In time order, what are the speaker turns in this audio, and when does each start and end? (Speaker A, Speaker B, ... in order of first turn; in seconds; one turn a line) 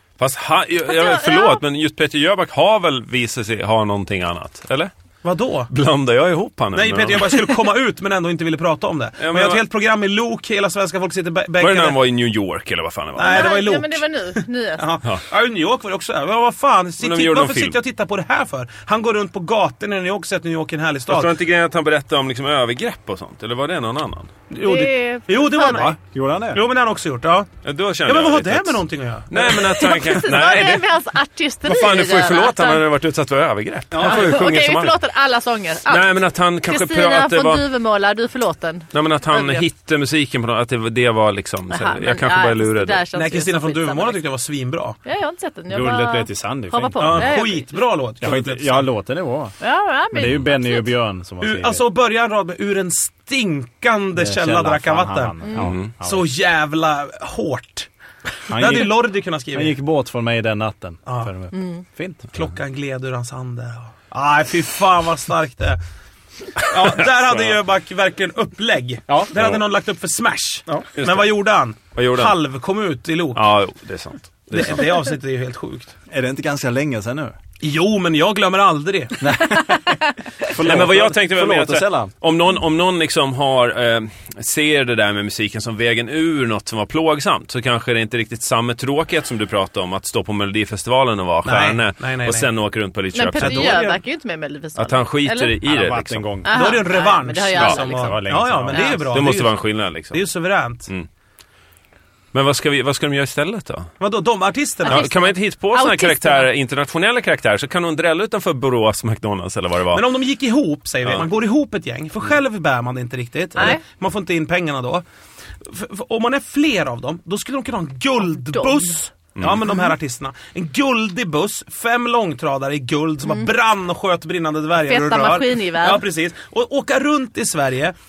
Speaker A: 0.2-4.9
Speaker B: 0.9-1.6
Speaker C: 5.2-5.7
Speaker A: 5.7-7.5
Speaker C: 6.7-12.0
Speaker A: 9.2-9.6
Speaker A: 11.6-13.6
Speaker B: 13.2-14.9
Speaker C: 13.2-21.3
Speaker A: 17.0-17.8
Speaker A: 21.1-24.3
Speaker C: 24.5-26.0
Speaker B: 24.6-25.9
Speaker D: 26.1-26.6
Speaker C: 26.5-27.5
Speaker A: 27.6-30.9
Speaker C: 28.1-29.9
Speaker B: 29.4-32.8
Speaker A: 31.6-35.0
Speaker C: 33.9-34.4
Speaker B: 34.0-39.6
Speaker A: 35.9-37.6
Speaker A: 38.9-43.0
Speaker B: 41.7-44.2
Speaker C: 43.1-45.0
Speaker B: 45.0-47.8
Speaker D: 45.7-47.4
Speaker C: 47.0-48.9
Speaker D: 48.2-49.6
Speaker B: 49.6-50.9
Speaker D: 50.1-51.8
Speaker C: 51.4-57.9
Speaker D: 54.1-56.3
Speaker B: 55.4-55.7
Speaker A: 55.6-55.9
Speaker D: 58.5-62.3
Speaker C: 58.5-59.7
Speaker C: 61.0-61.3
Speaker B: 61.5-61.8
Speaker C: 62.3-65.8
Speaker C: 66.6-73.4
Speaker A: 66.8-67.5
Speaker A: 69.3-69.6
Speaker A: 71.0-71.3
Speaker A: 71.9-72.3
Speaker A: 73.3-74.9
Speaker C: 74.5-75.9
Speaker D: 76.1-77.3
Speaker C: 77.6-79.3
Speaker D: 79.2-82.1
Speaker B: 79.7-80.0
Speaker A: 80.5-93.8
Speaker C: 91.4-92.5
Speaker B: 93.1-95.5
Speaker C: 93.4-94.0
Speaker A: 94.8-96.3
Speaker D: 95.6-96.7
Speaker B: 96.4-99.0
Speaker C: 96.5-100.9
Speaker D: 98.0-99.0
Speaker A: 99.1-100.2
Speaker A: 102.3-103.9
Speaker C: 104.0-105.0
Speaker B: 104.8-106.5
Speaker A: 104.9-110.0
Speaker C: 109.9-115.0
Speaker C: 115.6-127.9
Speaker B: 118.4-118.9
Speaker A: 119.3-119.7
Speaker B: 119.7-119.9
Speaker B: 123.2-123.5
Speaker B: 124.8-126.1